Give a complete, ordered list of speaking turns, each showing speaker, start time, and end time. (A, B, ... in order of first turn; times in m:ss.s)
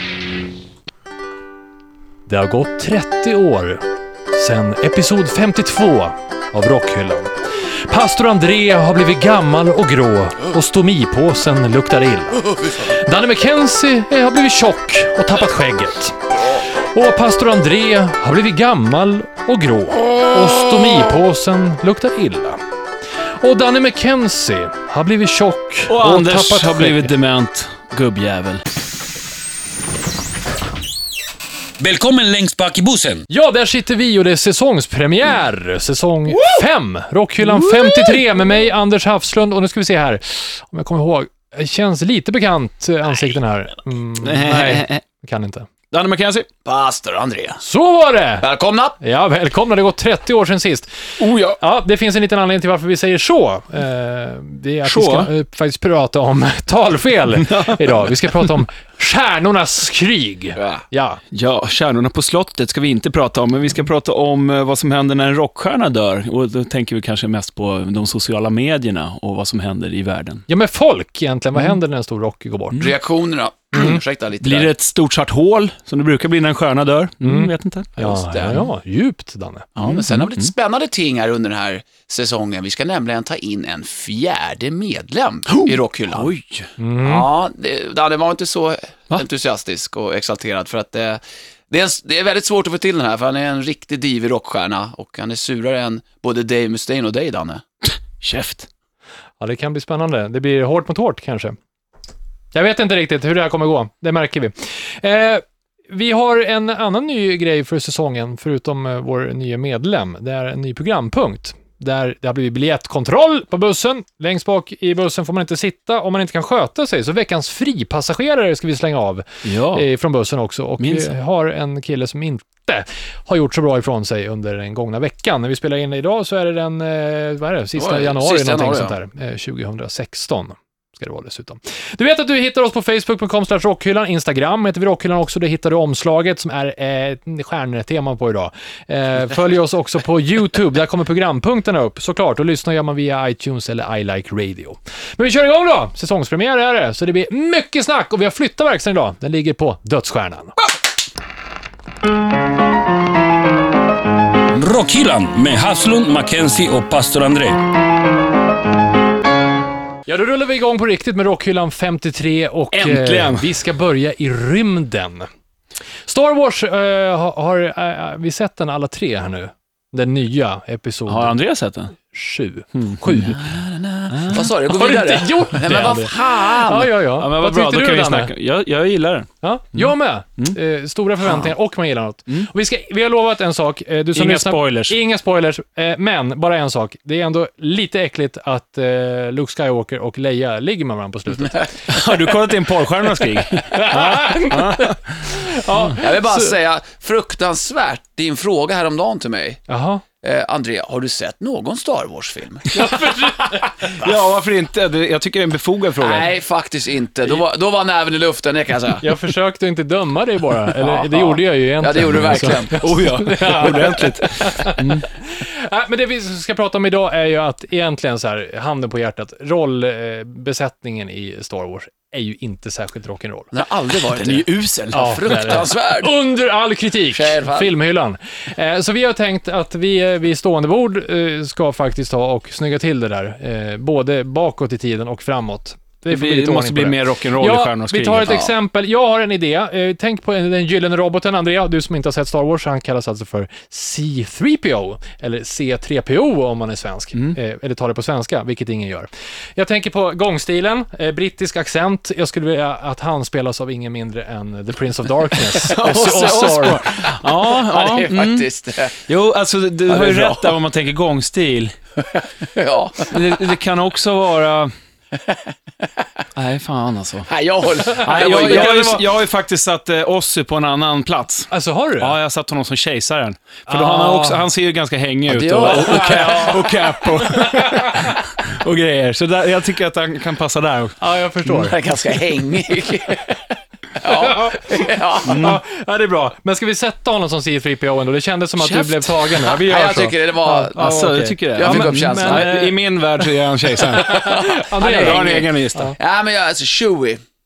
0:02.3-0:16.2 A
0:16.9-0:22.6 A
0:23.4-0:27.1 A
0:25.9-0:28.6 B
0:31.8-0:33.3 C
0:33.3-0:45.7 A
0:36.3-0:36.6 B
0:37.4-0:38.2 B
0:44.2-0:45.0 B
0:45.9-0:46.5 B
0:46.6-0:47.6 D
0:47.6-0:48.4 A
0:48.4-0:49.0 D
0:49.0-1:01.2 A
0:51.2-0:51.6 B
0:54.8-0:55.3 B
0:57.4-0:58.6 B
1:01.3-1:10.4 B
1:10.5-1:12.9 A
1:12.8-1:14.7 D
1:13.7-1:14.0 A
1:14.4-1:18.0 B
1:17.2-1:19.7 A
1:18.0-1:18.6 D
1:19.8-1:26.3 D
1:19.8-1:20.5 B
1:25.5-1:26.7 B
1:26.8-1:27.2 A
1:27.0-1:37.6 D
1:38.1-1:38.7 B
1:39.4-1:41.6 A
1:42.5-2:30.5 A
1:59.4-1:59.8 B
2:00.8-2:01.1 B
2:07.8-2:09.0 D
2:34.5-2:37.6 C
2:40.0-2:45.3 A
2:42.7-2:43.5 B
2:46.0-2:51.3 A
2:51.1-2:51.9 B
2:52.0-2:53.4 A
2:52.7-2:53.3 B
2:53.3-2:56.9 D
2:54.1-2:54.5 B
2:54.6-2:58.3 A
2:57.2-3:00.6 B
2:59.4-3:11.7 A
3:04.1-3:05.0 B
3:11.9-3:15.9 B
3:13.5-3:16.5 A
3:16.0-3:19.6 D
3:19.7-3:20.0 A
3:20.2-3:22.7 D
3:22.7-3:23.7 A
3:23.9-3:26.3 B
3:26.0-3:29.0 D
3:29.0-3:43.5 A
3:30.8-3:33.0 D
3:32.1-3:35.0 B
3:43.5-3:46.1 D
3:44.1-3:45.7 B
3:44.9-4:16.8 A
3:47.1-3:47.7 D
3:56.1-3:58.4 B
3:58.2-3:58.5 D
4:15.6-4:18.5 B
4:16.9-4:19.0 D
4:19.0-4:21.8 B
4:19.9-4:20.6 D
4:22.0-4:23.2 D
4:23.1-4:24.7 B
4:25.1-4:25.8 D
4:26.4-4:27.3 B
4:27.3-4:28.9 D
4:27.9-4:41.0 B
4:28.0-4:29.0 A
4:31.5-4:32.2 A
4:33.7-4:34.4 A
4:35.3-4:36.4 D
4:35.6-4:38.1 A
4:41.0-4:41.8 A
4:41.5-4:43.4 D
4:44.0-4:45.4 D
4:44.0-4:52.8 A
4:45.2-4:45.6 B
4:48.6-4:49.3 B
4:49.5-4:51.0 D
4:50.8-4:55.9 B
4:51.5-4:52.5 D
4:53.9-4:56.0 A
4:54.0-4:57.2 D